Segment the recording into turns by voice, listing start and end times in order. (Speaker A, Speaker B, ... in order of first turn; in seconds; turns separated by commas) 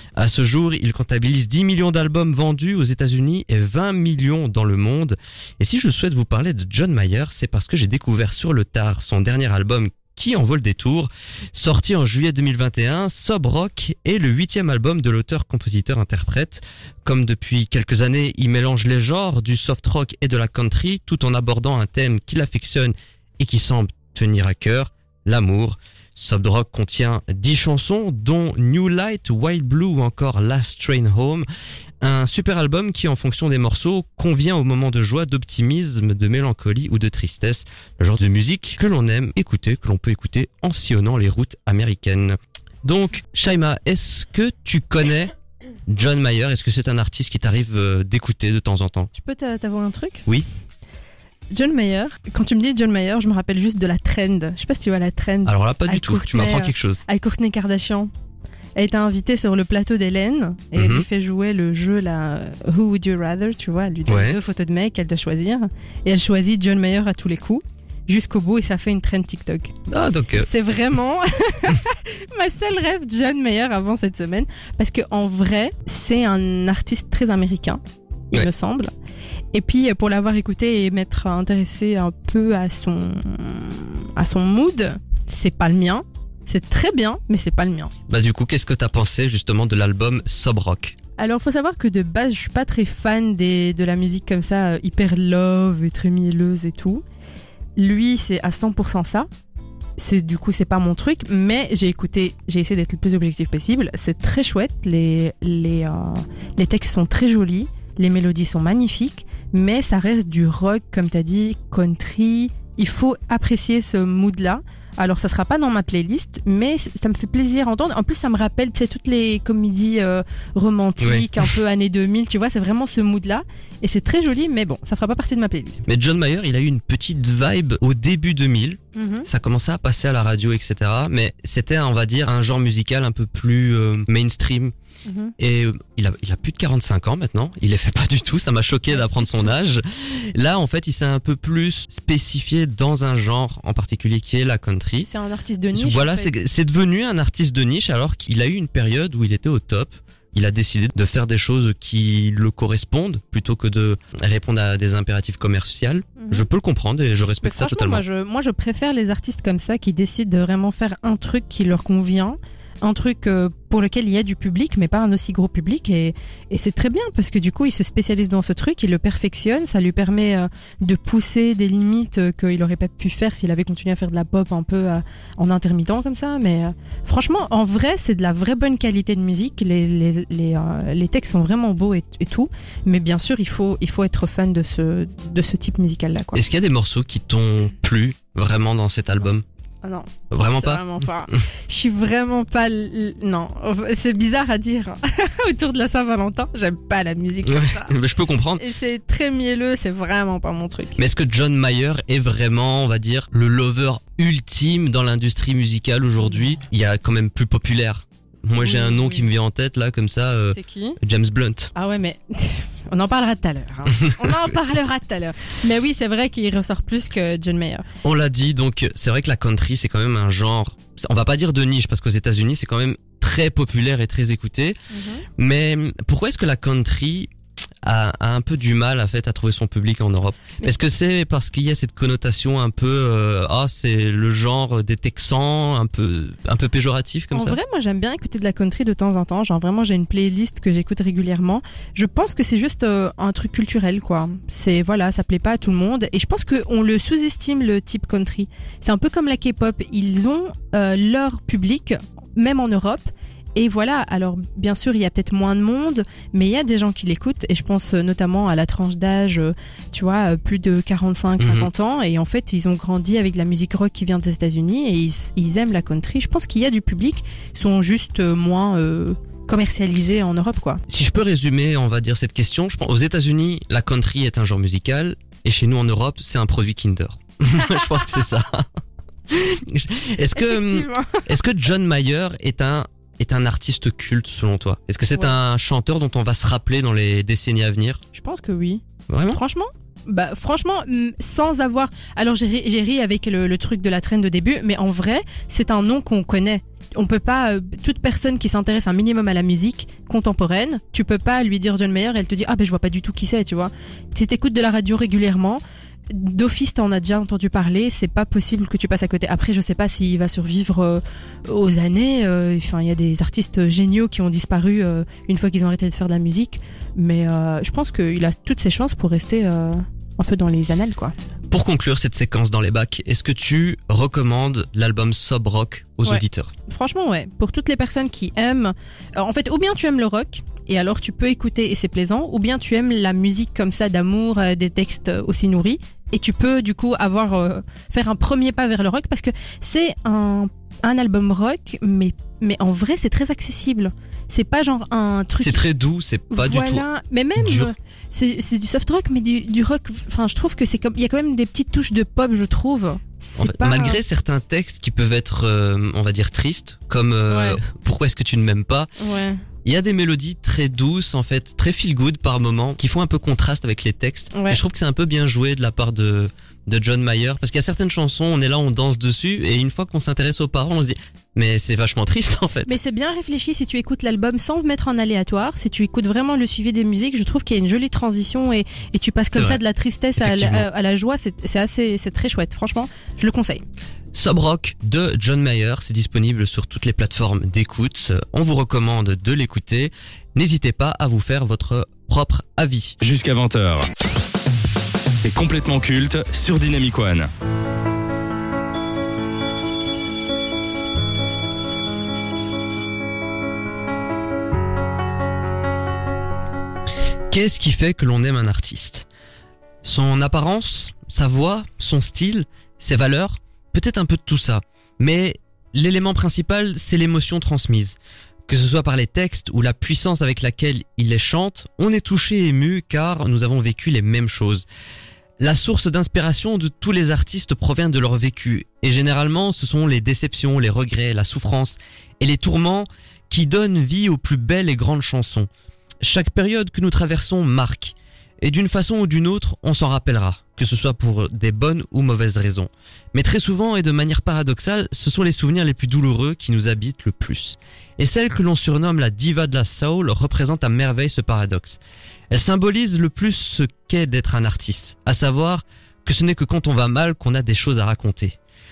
Speaker A: 0.2-31.4, Speaker A: 32.0-45.3, Speaker A: 45.9-49.1, Speaker B: 49.1-50.3, Speaker B: 51.5-58.1, Speaker A: 55.5-57.0, Speaker B: 58.7-69.7, Speaker A: 60.7-61.0, Speaker A: 64.1-64.4, Speaker A: 69.9-70.5, Speaker B: 70.4-78.9, Speaker B: 79.5-87.9, Speaker A: 88.1-90.9, Speaker B: 91.2-97.0, Speaker B: 97.8-99.3, Speaker B: 100.0-125.8, Speaker A: 121.0-121.5, Speaker A: 125.9-134.7, Speaker B: 128.9-129.3, Speaker B: 135.0-135.3, Speaker A: 135.4-145.1, Speaker B: 138.9-139.5, Speaker B: 145.0-146.3, Speaker A: 145.7-158.0, Speaker B: 156.2-156.4, Speaker B: 157.4-186.4, Speaker A: 186.3-189.4, Speaker B: 189.8-197.9, Speaker A: 190.3-190.8, Speaker A: 197.4-198.6, Speaker B: 198.6-201.0, Speaker A: 201.0-211.7, Speaker B: 208.5-209.3, Speaker B: 210.5-211.0, Speaker B: 211.7-217.8, Speaker A: 214.0-214.5, Speaker A: 218.0-224.8, Speaker B: 224.9-225.2, Speaker A: 225.4-227.3, Speaker A: 227.8-237.6, Speaker B: 237.3-270.8, Speaker A: 261.4-261.7, Speaker A: 270.9-278.7, Speaker A: 279.3-288.0, Speaker B: 280.3-281.2, Speaker B: 288.1-321.1, Speaker A: 289.1-289.4, Speaker A: 321.5-326.5, Speaker B: 326.0-345.6, Speaker A: 345.4-346.8, Speaker B: 346.3-354.0, Speaker A: 347.4-347.7, Speaker A: 353.4-358.9, Speaker B: 357.3-357.6, Speaker B: 359.0-359.4, Speaker A: 359.6-372.8, Speaker B: 364.3-364.6, Speaker B: 372.6-383.6, Speaker A: 379.3-379.6, Speaker A: 380.2-380.6, Speaker A: 384.1-393.0, Speaker C: 393.0-393.9, Speaker C: 395.1-397.3, Speaker A: 407.3-409.1, Speaker A: 409.8-417.9, Speaker A: 418.5-424.7, Speaker A: 425.4-435.5, Speaker A: 436.0-458.4